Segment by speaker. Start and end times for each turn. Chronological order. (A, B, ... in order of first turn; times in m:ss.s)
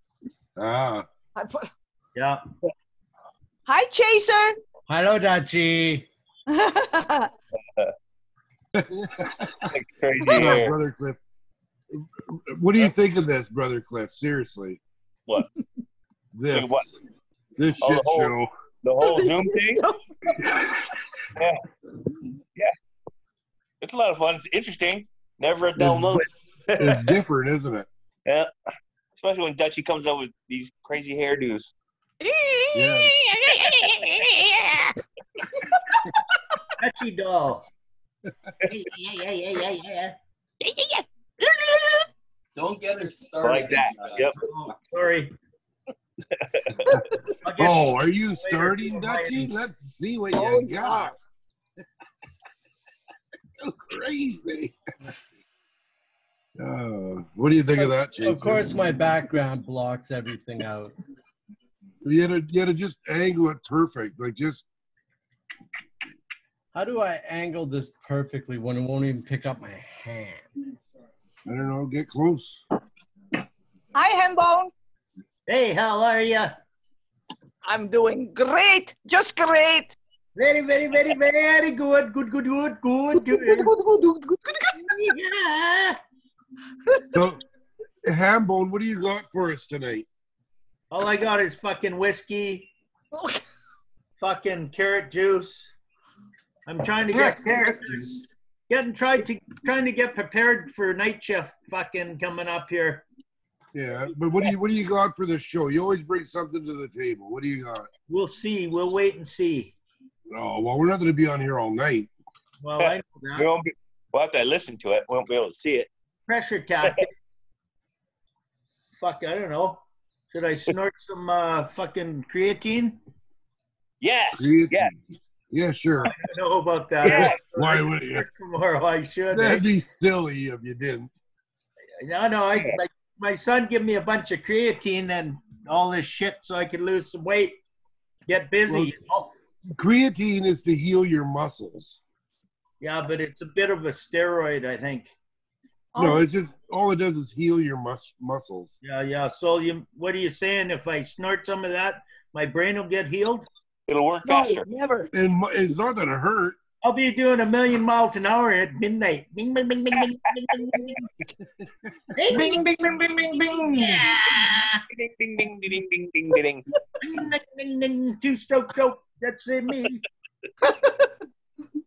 0:00.6-0:01.1 A
0:01.4-0:01.7 B
0:02.2-0:02.4 C
0:03.7-0:04.6 B
0:04.9-0:06.1 D
0:06.5-0:07.3 B
0:08.8-0:09.7 A
0:09.7-0:10.8 E
0:10.2-0:10.5 B
0:10.3-0:11.2 A
0:11.9-0:14.8 A
0:16.3-0:17.0 A
0:16.5-0:16.9 E
0:17.6-0:18.5 A
0:17.8-0:19.8 E
0:19.0-0:20.5 B
0:21.4-0:21.6 E
0:23.8-0:27.2 E
0:25.8-0:26.2 A
0:26.8-0:27.9 A
0:29.2-0:31.7 E
0:32.2-0:34.9 B
0:32.7-0:33.2 A
0:33.7-0:34.1 E
0:36.8-0:37.7 C
0:38.7-0:40.2 C
0:40.6-0:42.0 B
0:42.6-0:45.0 F
0:43.4-0:44.4 E
0:44.4-0:45.3 C
0:46.4-0:46.9 E
0:47.4-0:49.5 C
0:47.6-0:51.2 A
0:50.3-0:51.1 B
0:53.6-0:54.7 A
0:56.6-0:58.8 A
0:57.8-1:01.0 D
1:02.0-1:04.6 A
1:06.7-1:10.5 D
1:11.5-1:12.6 A
1:14.0-1:14.7 B
1:15.5-1:16.6 C
1:17.6-1:20.0 B
1:20.4-1:23.7 C
1:23.2-1:24.8 B
1:24.9-1:26.0 C
1:27.1-1:27.4 A
1:28.0-1:30.1 A
1:30.9-1:32.7 C
1:33.1-1:33.4 B
1:34.2-1:35.7 C
1:36.7-1:43.0 C
1:43.7-1:47.9 A
1:48.1-1:49.7 C
1:50.3-1:52.1 A
1:52.6-1:53.5 C
1:53.4-1:55.9 E
1:56.3-1:57.1 C
1:59.0-2:03.0 C
2:04.0-2:04.9 E
2:04.4-2:04.9 A
2:05.5-2:06.2 A
2:06.0-2:09.6 C
2:07.0-2:07.4 E
2:07.0-2:08.3 A
2:09.3-2:11.1 A
2:12.0-2:17.6 C
2:18.3-2:19.3 C
2:18.7-2:18.9 A
2:19.8-2:22.0 A
2:22.8-2:25.1 C
2:26.0-2:28.7 A
2:26.0-2:26.2 B
2:28.8-2:33.5 C
2:33.9-2:34.7 E
2:34.2-2:35.1 B
2:35.1-2:36.6 A
2:36.8-2:41.1 C
2:42.2-2:42.9 C
2:43.7-2:44.8 C
2:44.9-2:46.6 E
2:47.0-2:50.0 C
2:50.6-2:51.1 B